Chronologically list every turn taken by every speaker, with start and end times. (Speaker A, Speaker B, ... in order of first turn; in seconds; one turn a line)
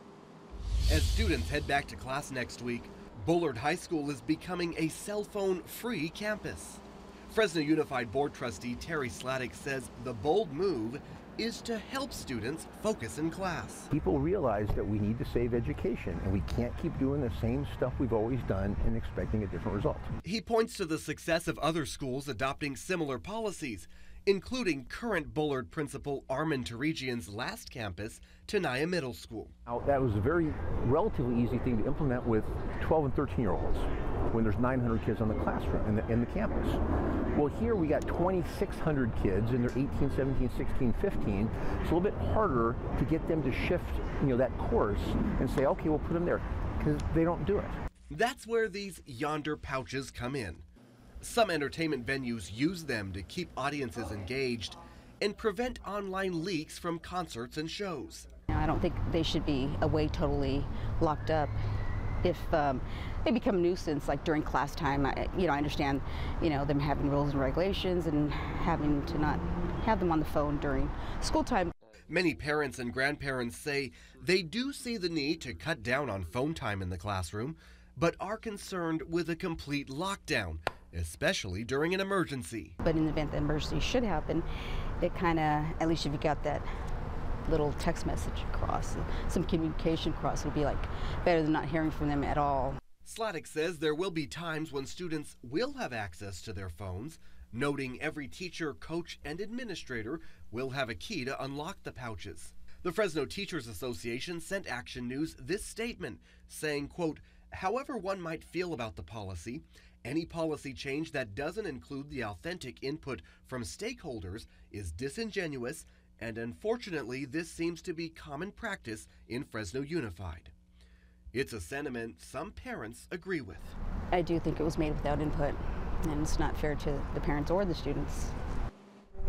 Speaker A: 0.9-13.9
Speaker B: 13.9-20.1
Speaker A: 20.2-29.5
Speaker B: 29.7-36.8
Speaker B: 37.3-47.7
Speaker A: 48.1-50.6
Speaker A: 51.2-58.3
Speaker C: 58.5-61.5
Speaker C: 62.2-71.7
Speaker A: 72.1-82.7
Speaker C: 82.8-84.5
Speaker C: 85.0-86.7
Speaker C: 87.5-92.8
Speaker A: 93.0-120.5
Speaker A: 121.3-123.7
Speaker C: 124.1-128.3